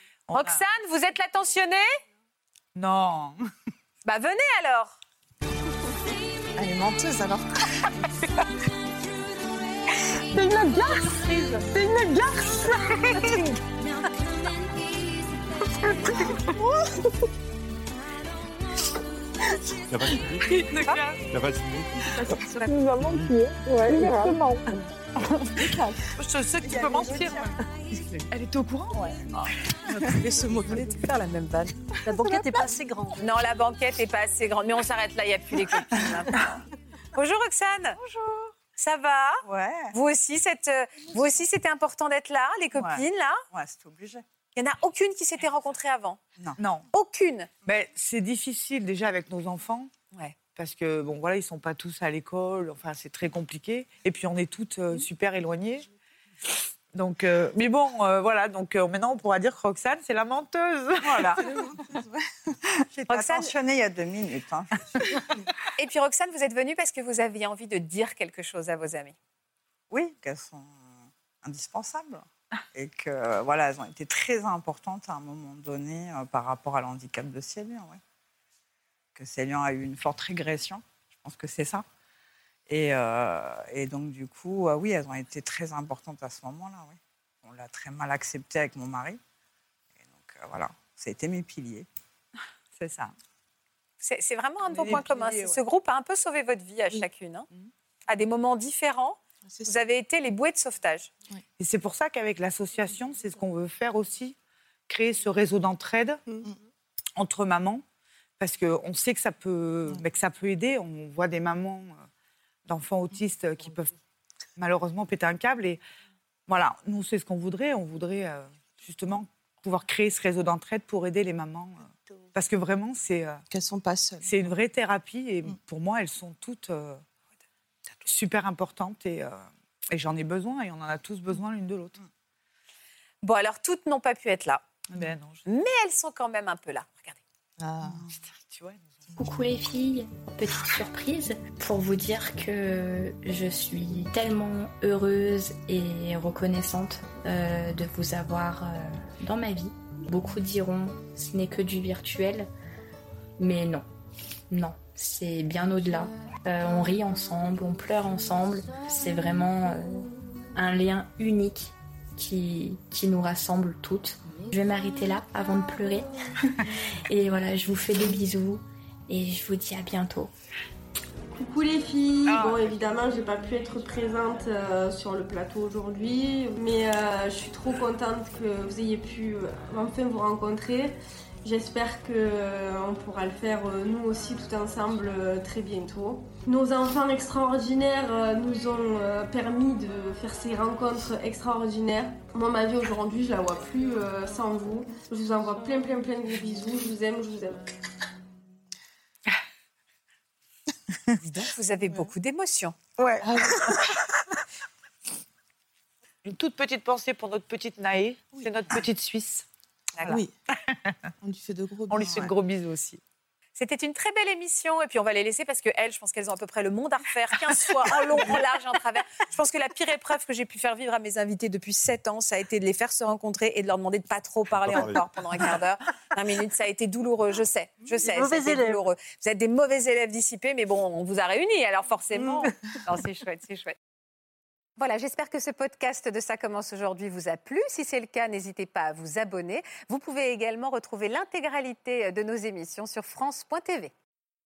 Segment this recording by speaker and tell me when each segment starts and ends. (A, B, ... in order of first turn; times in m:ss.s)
0:00.3-0:00.6 A
0:00.3-0:01.8 B
0:02.7-0:03.4 A
0:04.0-0:05.0 B
0:06.5-0:07.5 C
0:10.3-0:13.4 D
0:19.9-0:20.8 E
0:20.5-0:21.2 A
0:21.3-0:22.1 E
0:22.1-0:24.6 D
0:22.9-0:23.3 E
0:26.2-0:27.6 A
0:26.6-0:27.5 C
0:28.3-0:30.1 A
0:29.9-0:31.1 C
0:31.0-0:33.2 D
0:33.2-0:36.6 B
0:37.1-0:38.0 B
0:38.8-0:43.4 B
0:39.5-0:39.9 F
0:43.5-0:44.2 F
0:44.5-0:46.2 B
0:46.6-0:46.8 A
0:46.9-0:47.5 B
0:47.6-0:49.9 A
0:50.5-0:55.9 A
0:56.9-1:01.4 A
1:01.0-1:02.2 C
1:03.1-1:03.5 B
1:03.1-1:04.7 F
1:05.8-1:09.1 B
1:09.9-1:18.0 F
1:19.2-1:21.8 F
1:22.7-1:29.2 F
1:30.0-1:31.9 F
1:32.8-1:33.1 A
1:34.0-1:37.5 B
1:34.7-1:35.6 A
1:38.1-1:41.1 B
1:39.4-1:39.7 C
1:41.6-1:44.3 A
1:44.9-1:46.4 A
1:47.2-1:47.8 A
1:48.4-1:52.0 A
1:52.7-1:53.9 A
1:54.6-1:55.8 A
1:56.5-2:03.4 A
2:03.5-2:04.3 C
2:04.2-2:07.0 A
2:08.0-2:12.0 A
2:13.2-2:14.6 B
2:14.9-2:15.4 A
2:15.5-2:17.2 B
2:17.6-2:18.0 C
2:17.8-2:18.9 A
2:19.1-2:32.5 G
2:33.4-2:33.8 G
2:34.5-2:46.1 G
2:47.1-2:50.3 G
2:51.3-3:17.6 H
2:52.2-2:53.0 A
3:21.2-3:22.8 B
3:23.0-3:23.9 A
3:23.2-3:23.8 C
3:26.2-3:29.4 A
3:30.0-3:30.9 A
3:30.0-3:30.3 C
3:31.2-3:32.3 C
3:31.9-3:33.0 A
3:33.5-3:53.8 B
3:44.5-3:45.0 E
3:48.1-3:48.8 D
3:54.8-4:03.9 B